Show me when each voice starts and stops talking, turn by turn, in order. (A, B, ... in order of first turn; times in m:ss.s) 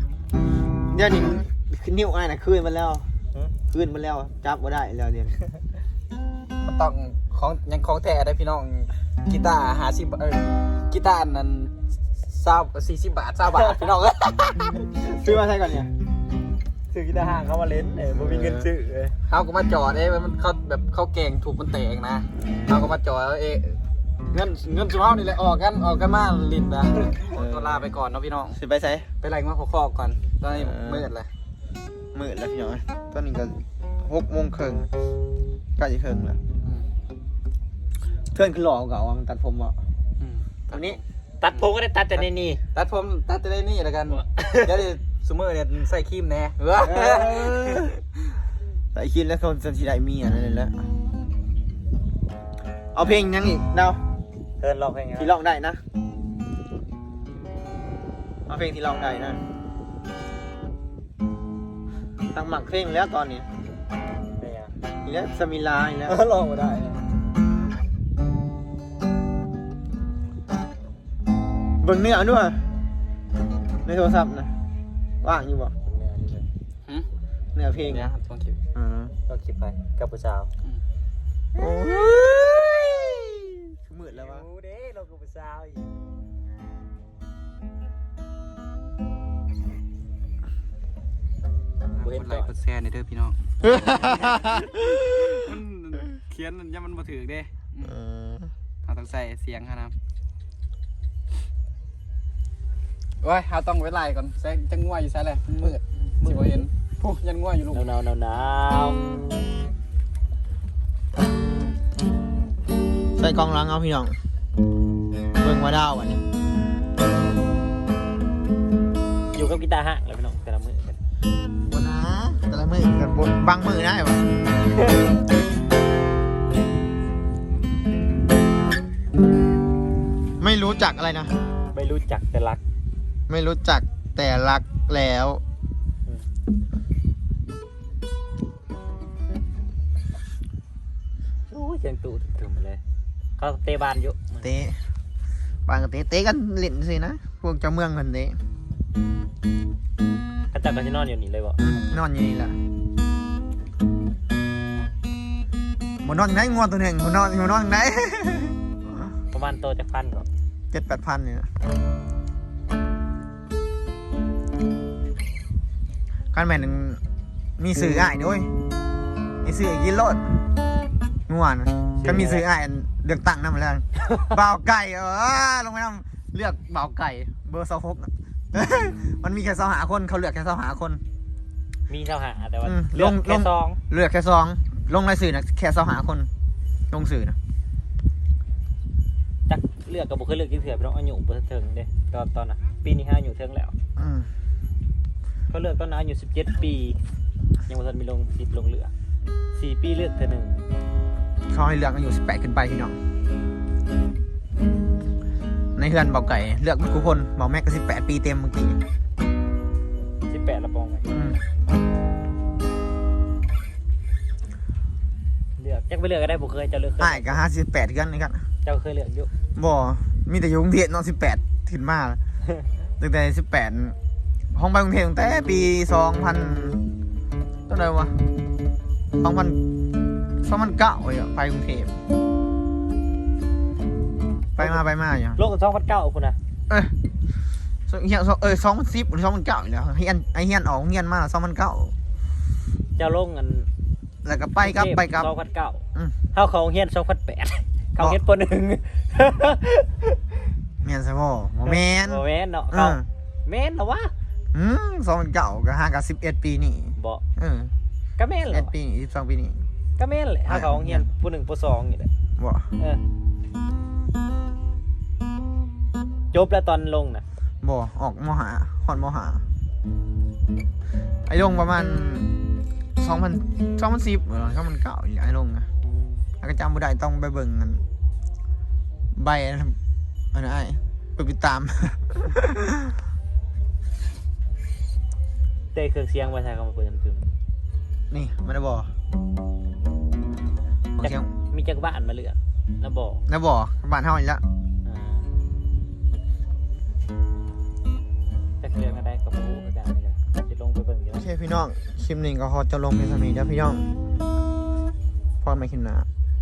0:00.9-0:03.1 A
0:03.7-0:05.4 A
0:06.6-0:14.7 B
0:14.8-0:15.9 A
0:16.9-0:19.2 C
0:18.1-0:18.7 A
0:19.3-0:23.8 B
0:24.3-0:28.6 B
0:27.3-0:27.9 A
0:28.5-0:29.1 A
0:29.2-0:31.3 B
0:30.5-0:31.1 A
0:32.1-0:34.9 A
0:35.8-0:36.4 A
0:38.3-0:39.8 A
0:40.2-0:41.7 B
0:40.7-0:41.0 A
0:41.4-0:42.6 C
0:42.7-0:47.9 B
0:44.1-0:44.7 C
0:46.8-0:47.9 A
0:49.0-0:50.8 A
0:53.0-0:54.0 A
0:54.6-0:55.3 C
0:55.2-0:55.8 A
0:58.5-0:59.4 A
1:02.3-1:03.5 A
1:04.4-1:04.7 C
1:05.0-1:06.2 A
1:06.1-1:07.0 B
1:11.8-1:12.6 A
1:13.8-1:14.5 A
1:15.2-1:15.7 A
1:15.8-1:16.5 C
1:17.6-1:18.1 A
1:17.8-1:18.6 B
1:18.8-1:19.1 A
1:19.3-1:20.5 C
1:21.6-1:24.5 A
1:24.1-1:25.9 C
1:32.0-1:32.5 C
1:32.0-1:38.0 B
1:33.6-1:34.9 A
1:37.8-1:38.5 A
1:38.9-1:40.0 B
1:43.2-1:47.9 B
1:46.2-1:46.7 C
1:47.7-1:49.5 C
1:53.2-1:54.2 A
1:55.4-1:56.2 A
1:59.3-2:01.0 C
2:01.7-2:04.3 A
2:10.4-2:11.4 A
2:11.7-2:12.6 C
2:13.3-2:15.4 A
2:21.5-2:22.8 C
2:23.4-2:24.5 C
2:24.4-2:24.8 A
2:25.7-2:28.4 A
2:30.5-2:31.6 C
2:31.6-2:32.6 A
2:36.0-2:38.6 A
2:39.3-2:40.3 C
2:40.7-2:41.5 A
2:46.3-2:47.0 A
2:47.6-2:48.5 A
2:49.4-2:50.4 A
2:51.3-3:01.0 A
2:52.0-2:52.5 C
3:01.9-3:03.8 C
3:02.6-3:06.3 A
3:06.9-3:07.4 A
3:09.5-3:13.8 C
3:14.0-3:14.3 A
3:15.5-3:17.0 C
3:17.7-3:18.9 C
3:19.5-3:20.6 C
3:21.5-3:23.0 A
3:25.8-3:28.8 A
3:30.3-3:31.1 C
3:31.1-3:31.4 A
3:35.6-3:37.4 C
3:37.0-3:38.4 A
3:38.6-3:39.3 C
3:39.6-3:42.2 A
3:43.0-3:44.0 A
3:44.6-3:46.8 A
3:47.7-3:48.2 A
3:49.2-3:49.6 A
3:50.4-3:51.9 A
3:54.6-3:55.4 A
3:55.4-3:56.4 C
3:56.7-3:57.0 A
3:57.9-4:02.0 A
4:03.0-4:03.7 C
4:04.2-4:05.3 A
4:04.6-4:05.8 C
4:06.3-4:10.2 C
4:10.8-4:13.1 A
4:11.6-4:14.1 C
4:14.5-4:17.7 A
4:17.0-4:17.2 C
4:18.2-4:18.7 C
4:18.5-4:19.6 A
4:20.0-4:22.1 C
4:20.5-4:21.1 A
4:22.4-4:22.7 A
4:26.3-4:27.2 C
4:27.6-4:29.4 A
4:31.3-4:32.3 A
4:33.0-4:35.7 A
4:35.8-4:36.2 C
4:36.4-4:37.8 A
4:39.1-4:39.8 A
4:40.3-4:42.9 A
4:45.7-4:47.3 C
4:48.1-4:48.9 A
4:51.0-4:51.3 A
4:51.0-4:53.2 C
4:53.3-4:54.4 A
4:54.8-4:55.3 C
4:58.6-5:01.3 C
5:01.2-5:03.9 A
5:05.4-5:06.1 A